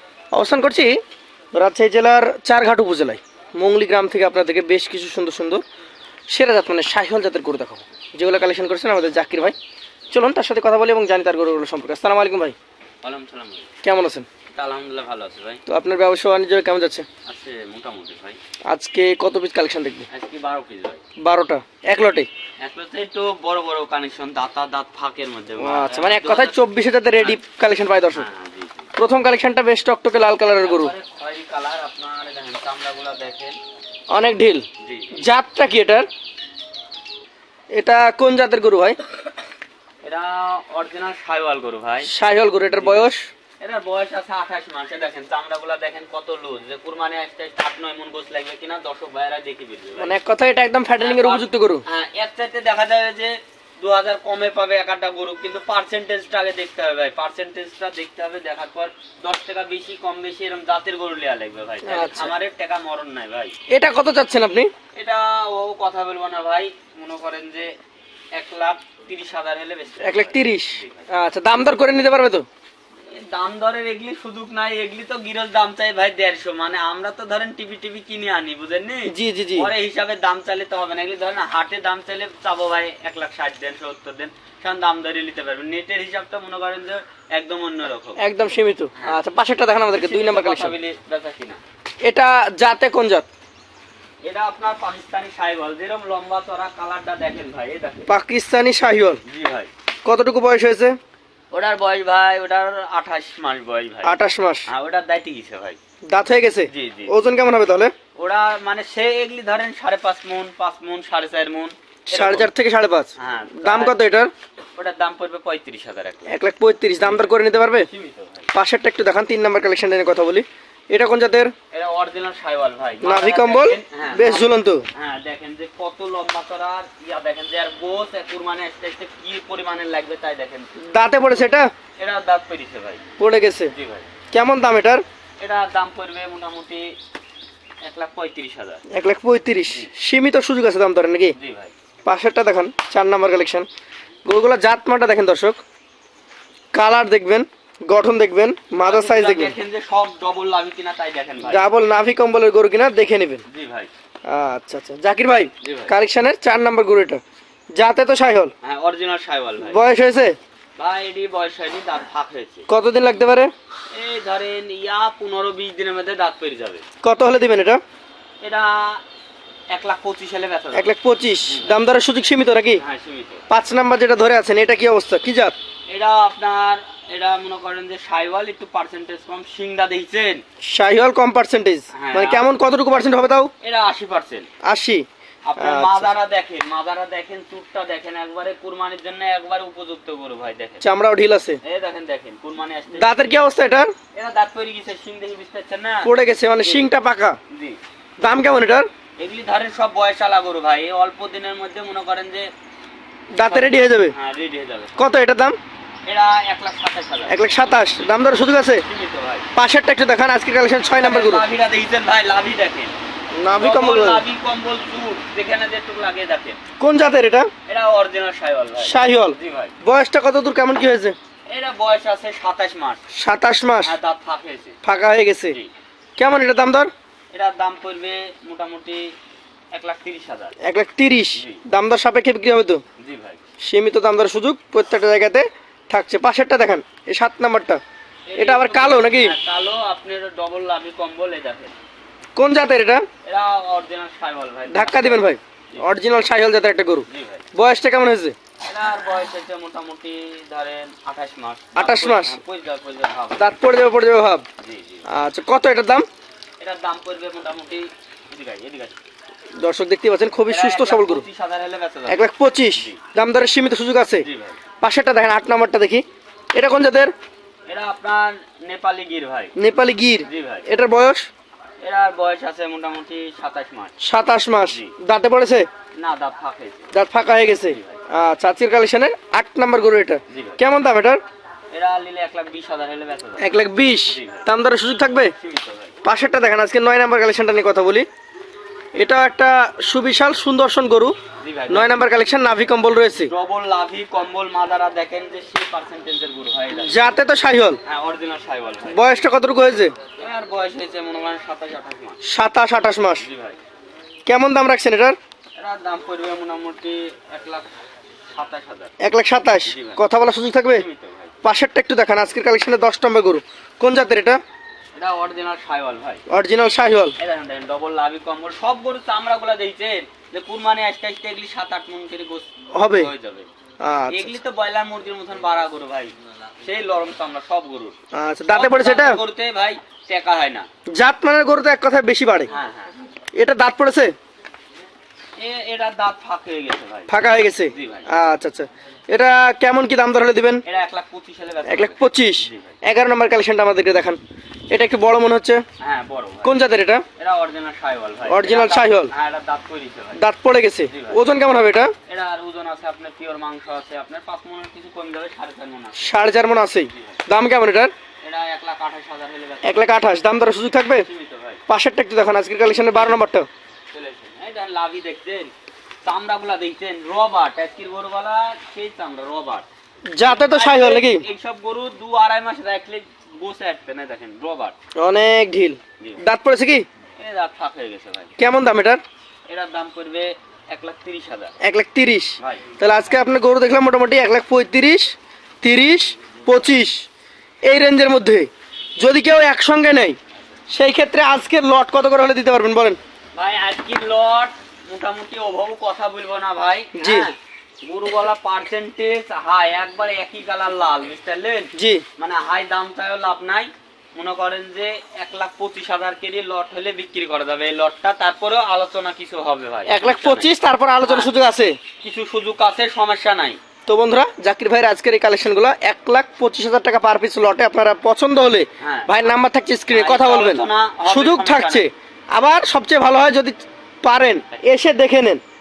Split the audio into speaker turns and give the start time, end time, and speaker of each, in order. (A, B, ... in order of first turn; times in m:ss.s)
0:00.3-0:01.0 A
0:01.5-0:05.6 A
0:06.3-0:09.6 A
0:10.1-0:12.6 A
0:13.0-0:13.7 B
0:13.8-0:14.3 A
0:14.5-0:15.6 B
0:15.7-0:17.0 A
0:17.3-0:18.4 B
0:18.7-0:20.1 A
0:20.1-0:21.0 B
0:21.2-0:22.3 A
0:22.6-0:26.6 B
0:25.6-0:28.3 A
0:28.1-0:28.9 B
0:29.0-0:30.9 A
0:30.6-0:33.6 B
0:34.1-0:34.7 A
0:34.8-0:35.2 B
0:35.2-0:36.1 A
0:37.7-0:39.0 A
0:40.0-0:42.1 B
0:42.0-0:43.2 A
0:42.7-0:50.1 B
0:50.0-0:51.8 A
0:51.0-1:03.6 B
1:01.9-1:02.3 A
1:03.7-1:04.7 A
1:04.9-1:07.8 B
1:08.3-1:11.1 B
1:10.0-1:12.4 A
1:13.1-1:28.2 B
1:19.1-1:19.7 A
1:28.2-1:30.8 A
1:29.9-1:31.6 B
1:32.0-1:33.3 A
1:34.2-1:38.1 B
1:38.1-1:39.2 A
1:39.2-1:39.7 B
1:40.0-1:41.0 A
1:41.5-1:44.2 B
1:44.0-1:44.7 A
1:44.7-1:45.8 B
1:46.1-1:47.9 A
1:46.7-1:47.2 B
1:48.2-1:52.5 B
1:52.1-1:54.3 A
1:53.2-1:54.0 B
1:54.8-1:56.3 B
1:56.3-1:57.9 A
1:57.0-1:58.5 B
1:58.5-2:01.5 A
2:01.7-2:10.7 B
2:03.0-2:04.8 A
2:10.8-2:11.7 A
2:12.0-2:13.0 B
2:13.2-2:13.7 A
2:13.7-2:14.1 B
2:14.3-2:15.0 A
2:15.4-2:17.0 B
2:17.8-2:18.8 B
2:18.9-2:21.4 A
2:21.4-2:21.7 B
2:22.1-2:23.7 A
2:24.2-2:25.6 A
2:26.7-2:29.6 A
2:28.8-2:31.6 B
2:31.4-2:33.4 A
2:33.5-2:33.9 B
2:34.3-2:37.2 A
2:35.6-2:35.9 B
2:37.8-2:38.5 A
2:38.6-2:39.8 B
2:39.6-2:40.4 A
2:40.8-2:42.7 B
2:42.7-2:43.5 A
2:43.9-2:46.8 B
2:47.0-2:47.8 A
2:48.4-2:49.0 B
2:49.7-2:50.9 B
2:50.7-2:52.8 A
2:51.5-2:51.8 B
2:52.8-2:53.5 B
2:53.5-2:55.6 A
2:55.9-3:00.4 B
3:00.6-3:03.5 A
3:01.9-3:02.5 B
3:03.6-3:04.5 B
3:04.6-3:05.0 A
3:05.5-3:10.8 B
3:05.6-3:06.1 A
3:10.8-3:11.6 A
3:11.6-3:13.3 B
3:13.0-3:13.9 A
3:14.1-3:16.9 B
3:16.0-3:17.4 A
3:17.5-3:17.8 B
3:18.2-3:18.9 A
3:19.2-3:22.5 B
3:23.3-3:24.2 A
3:23.4-3:25.0 B
3:25.0-3:25.6 A
3:26.1-3:27.4 B
3:27.3-3:28.8 A
3:28.8-3:29.5 B
3:29.6-3:31.4 A
3:31.0-3:32.9 B
3:33.3-3:34.2 A
3:33.6-3:36.6 B
3:36.8-3:37.5 A
3:37.7-3:39.8 B
3:38.8-3:41.2 A
3:41.5-3:43.0 B
3:43.2-3:44.0 A
3:43.8-3:44.8 B
3:44.8-3:45.6 A
3:46.2-3:46.9 A
3:47.3-3:49.2 B
3:49.7-3:50.6 B
3:50.6-3:52.8 A
3:51.4-3:51.6 B
3:53.0-3:53.4 B
3:53.6-3:57.8 A
3:58.3-4:01.8 B
3:58.4-3:59.4 A
4:02.4-4:03.0 A
4:03.2-4:05.9 B
4:04.7-4:08.4 A
4:07.1-4:07.5 B
4:08.6-4:13.5 B
4:11.8-4:12.4 A
4:13.4-4:14.4 A
4:14.6-4:15.0 B
4:15.1-4:16.1 A
4:16.6-4:19.0 B
4:19.6-4:21.2 A
4:20.5-4:23.0 B
4:22.1-4:24.3 A
4:24.2-4:24.6 B
4:24.8-4:26.0 A
4:26.6-4:27.1 A
4:27.7-4:29.5 B
4:29.6-4:31.3 A
4:30.3-4:30.7 B
4:31.8-4:34.0 B
4:34.0-4:35.7 A
4:36.0-4:38.0 B
4:36.9-4:41.2 A
4:40.3-4:40.6 B
4:41.7-4:43.5 B
4:43.4-4:45.3 A
4:44.1-4:44.5 B
4:45.4-4:46.0 B
4:46.0-4:48.1 A
4:49.0-4:51.2 A
4:51.4-4:52.1 B
4:51.7-4:53.3 A
4:53.2-4:57.0 B
4:56.8-4:57.8 A
4:57.8-4:59.0 B
4:58.9-5:00.0 A
5:00.2-5:02.2 B
5:02.2-5:03.3 A
5:03.2-5:03.6 B
5:04.3-5:05.2 A
5:05.6-5:07.7 B
5:08.3-5:09.0 B
5:09.0-5:10.9 A
5:09.7-5:10.0 B
5:10.7-5:11.4 B
5:11.4-5:14.4 A
5:15.0-5:16.2 B
5:16.3-5:17.2 A
5:17.2-5:23.5 B
5:22.7-5:23.1 A
5:23.8-5:24.3 A
5:24.1-5:28.0 B
5:28.1-5:29.2 A
5:28.5-5:30.7 B
5:30.9-5:32.5 A
5:32.5-5:33.0 B
5:33.4-5:34.1 A
5:35.4-5:38.1 B
5:37.1-5:40.6 A
5:40.6-5:42.8 B
5:41.7-5:45.6 A
5:45.8-5:46.6 B
5:46.4-5:47.0 A
5:47.2-5:50.2 B
5:48.3-5:49.1 A
5:50.2-5:51.9 A
5:50.9-5:51.2 B
5:52.1-5:56.1 B
5:56.0-5:57.9 A
5:56.9-5:57.2 B
5:58.2-5:59.8 B
5:59.6-6:01.1 A
6:01.0-6:01.6 B
6:01.7-6:03.5 A
6:02.7-6:03.2 B
6:03.9-6:05.5 B
6:06.0-6:09.7 B
6:10.1-6:11.2 A
6:10.2-6:14.8 B
6:15.0-6:16.8 A
6:17.2-6:18.4 B
6:18.4-6:19.0 A
6:19.5-6:21.5 B
6:21.6-6:27.0 A
6:22.4-6:22.7 B
6:27.6-6:28.5 A
6:29.0-6:30.2 A
6:30.7-6:33.0 A
6:33.4-6:51.3 B
6:37.0-6:37.3 A
6:41.8-6:42.0 A
6:49.9-6:51.8 A
6:52.0-6:53.6 B
6:53.9-7:05.4 A
6:58.8-6:59.3 B
6:59.9-7:01.9 B